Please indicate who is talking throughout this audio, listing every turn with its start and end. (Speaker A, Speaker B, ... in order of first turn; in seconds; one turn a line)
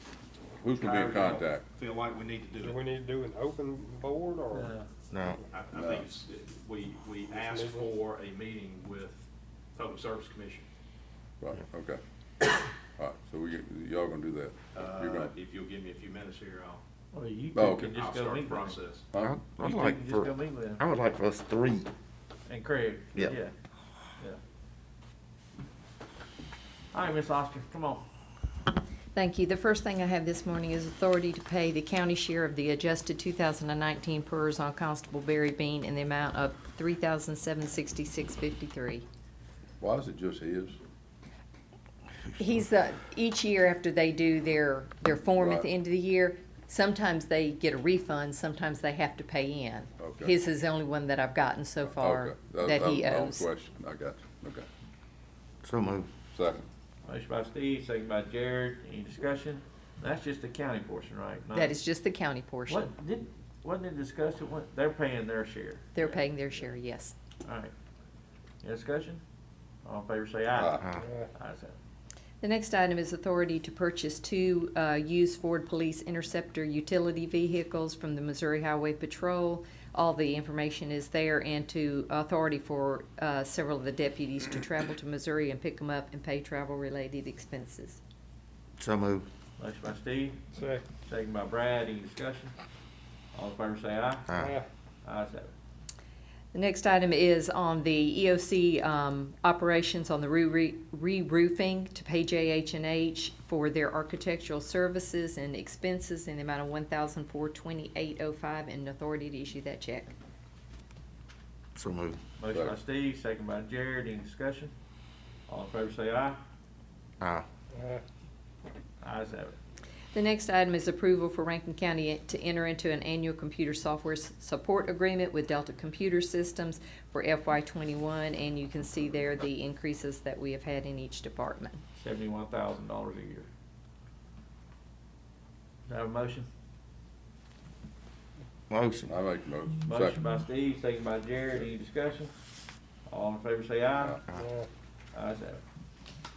Speaker A: 0.6-1.6
Speaker B: 0.7-3.0
Speaker C: 2.7-4.7
Speaker D: 4.5-4.9
Speaker E: 5.1-5.4
Speaker B: 5.5-10.7
Speaker A: 5.8-6.0
Speaker A: 11.4-12.0
Speaker A: 13.0-15.3
Speaker B: 14.7-16.8
Speaker D: 17.1-18.8
Speaker A: 17.5-17.9
Speaker B: 17.8-19.0
Speaker A: 19.1-19.4
Speaker E: 19.1-21.9
Speaker D: 19.6-20.8
Speaker D: 22.5-23.5
Speaker D: 26.9-28.0
Speaker F: 29.1-39.0
Speaker A: 39.8-40.8
Speaker F: 42.4-53.5
Speaker A: 45.4-45.7
Speaker A: 50.0-50.3
Speaker A: 51.8-54.7
Speaker E: 55.6-56.1
Speaker A: 56.3-56.7
Speaker D: 57.0-61.7
Speaker F: 61.6-62.8
Speaker D: 62.7-66.2
Speaker F: 66.0-67.1
Speaker D: 67.4-67.7
Speaker D: 68.6-69.2
Speaker D: 69.8-71.7
Speaker A: 70.5-70.8
Speaker F: 72.4-88.0
Speaker E: 88.8-89.3
Speaker D: 89.6-90.4
Speaker C: 90.5-90.8
Speaker D: 91.0-92.5
Speaker D: 93.3-94.3
Speaker D: 95.0-95.5
Speaker F: 96.5-110.1
Speaker E: 111.8-112.2
Speaker D: 112.4-114.7
Speaker A: 112.5-112.8
Speaker D: 115.5-116.4
Speaker E: 117.2-117.5
Speaker C: 117.7-118.0
Speaker D: 119.0-119.5
Speaker F: 120.1-131.8
Speaker D: 131.9-133.5
Speaker D: 135.9-136.5
Speaker E: 138.7-139.1
Speaker A: 139.1-140.2
Speaker D: 139.8-142.3
Speaker D: 143.1-144.2
Speaker D: 145.1-145.6